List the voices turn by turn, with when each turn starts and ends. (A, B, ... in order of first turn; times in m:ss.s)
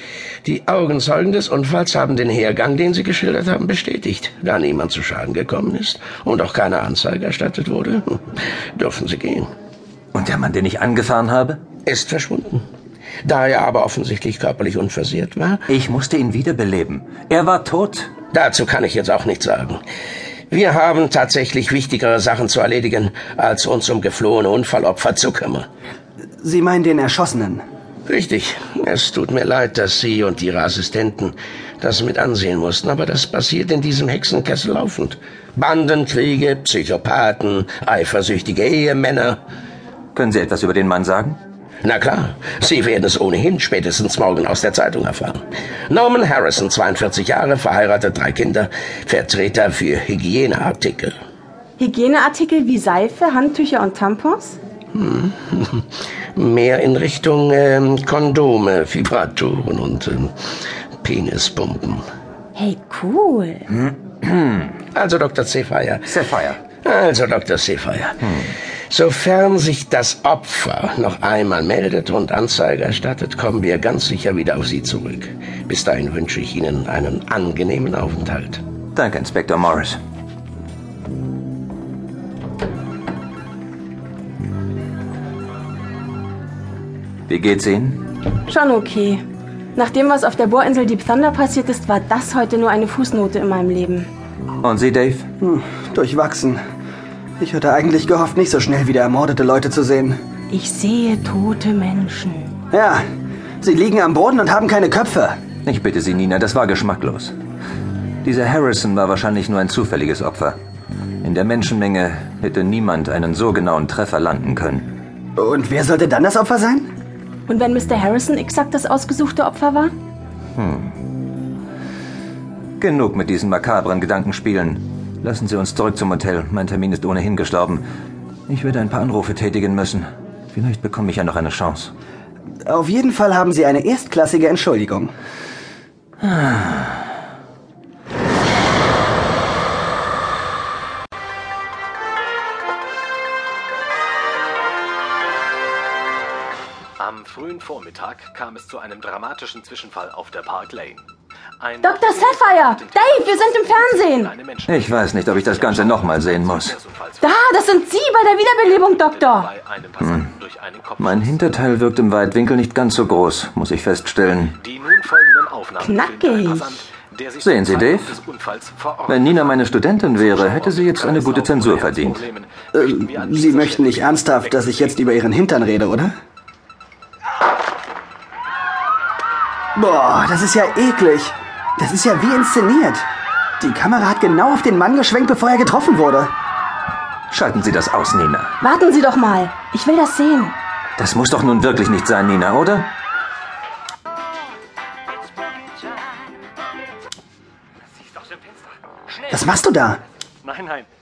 0:00.4-0:08.2 A
0:08.8-0:09.5 A
0:10.1-0:11.6 B
0:11.8-0:12.6 A
0:13.2-0:15.6 A
0:15.7-0:18.1 B
0:18.3-0:19.8 A
0:20.5-0:25.6 A
0:26.4-0:27.6 C
0:28.1-0:39.4 A
0:40.1-0:41.4 B
0:41.8-0:51.1 A
0:51.8-0:54.6 D
0:54.9-0:55.8 A
0:56.4-1:00.3 A
1:01.0-1:02.0 A
1:02.5-1:03.7 D
1:03.7-1:04.7 B
1:04.9-1:06.1 A
1:06.0-1:06.6 B
1:06.8-1:18.6 A
1:18.9-1:20.0 B
1:27.3-1:28.0 B
1:28.4-1:29.2 D
1:29.7-1:34.1 D
1:34.6-1:35.3 B
1:35.4-1:36.6 C
1:37.4-1:40.2 C
1:40.5-1:42.5 D
1:42.7-1:43.0 C
1:43.6-1:45.4 C
1:45.6-1:47.3 B
1:48.2-1:50.6 B
1:51.2-1:54.9 B
1:55.4-1:56.9 C
1:57.5-1:59.9 D
2:00.6-2:00.9 B
2:02.8-2:07.8 B
2:08.5-2:11.9 B
2:12.6-2:15.1 C
2:16.2-2:16.9 B
2:27.0-2:31.0 E
2:31.6-2:37.2 E
2:31.8-2:34.4 D
2:34.6-2:36.8 B
2:37.2-2:39.5 D
2:39.0-2:41.4 E
2:40.0-2:40.3 B
2:41.0-2:44.6 B
2:44.6-2:49.6 E
2:45.8-2:46.8 D
2:47.4-2:48.2 B
2:49.1-2:52.2 B
2:50.2-2:55.0 E
2:52.7-2:56.1 C
2:59.7-3:03.1 C
3:03.6-3:06.3 C
3:07.3-3:08.5 B
3:08.6-3:10.6 D
3:11.0-3:12.9 B
3:19.3-3:20.0 C
3:20.4-3:20.9 E